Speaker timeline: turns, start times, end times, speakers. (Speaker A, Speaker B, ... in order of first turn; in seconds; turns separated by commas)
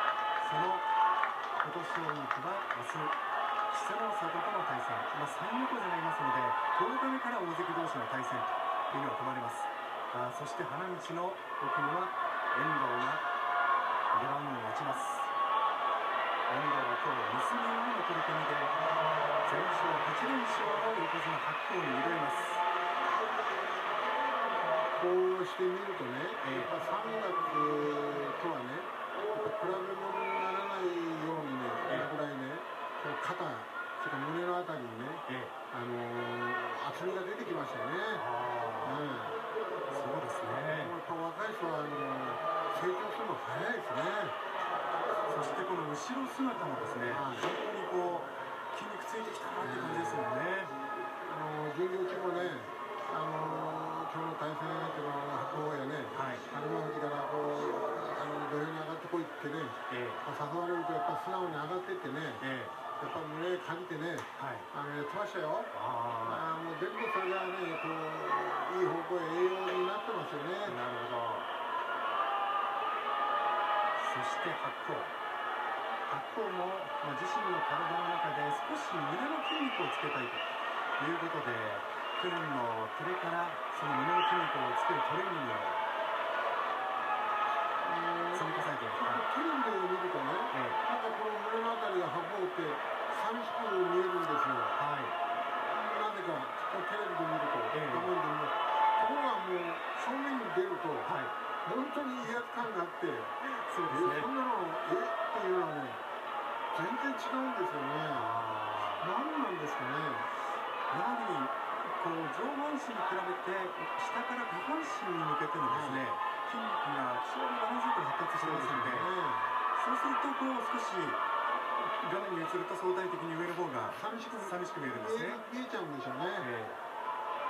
Speaker A: 0.4-0.9, Speaker A: 1.6-3.1, Speaker A: 3.7-13.2, Speaker A: 14.1-15.3, Speaker A: 16.5-18.8, Speaker A: 19.4-22.6, Speaker B: 24.9-38.2, Speaker A: 26.4-26.7, Speaker A: 35.2-35.5, Speaker A: 38.1-39.0, Speaker B: 38.8-39.4, Speaker A: 39.9-41.0, Speaker B: 40.6-44.4, Speaker A: 45.3-50.8, Speaker B: 47.0-47.5, Speaker B: 49.6-50.3, Speaker B: 51.2-62.4, Speaker A: 56.1-56.5, Speaker A: 59.9-60.2, Speaker A: 62.4-62.8, Speaker B: 63.0-70.8, Speaker A: 64.4-64.7, Speaker A: 65.7-66.5, Speaker A: 70.6-71.5, Speaker A: 74.0-75.2, Speaker A: 76.0-80.5, Speaker A: 81.0-85.8, Speaker B: 87.8-94.8, Speaker A: 88.3-89.3, Speaker A: 90.5-90.8, Speaker A: 94.8-95.2, Speaker B: 95.7-101.1, Speaker A: 97.7-98.1, Speaker A: 101.0-101.3, Speaker B: 101.6-103.3, Speaker A: 103.4-104.3, Speaker B: 103.9-106.0, Speaker B: 106.7-108.4, Speaker A: 108.1-109.0, Speaker B: 109.0-110.3, Speaker A: 110.9-119.1, Speaker B: 115.7-116.0, Speaker B: 118.4-119.6, Speaker A: 119.8-121.2, Speaker A: 121.8-125.4, Speaker B: 123.9-126.5, Speaker A: 126.4-126.8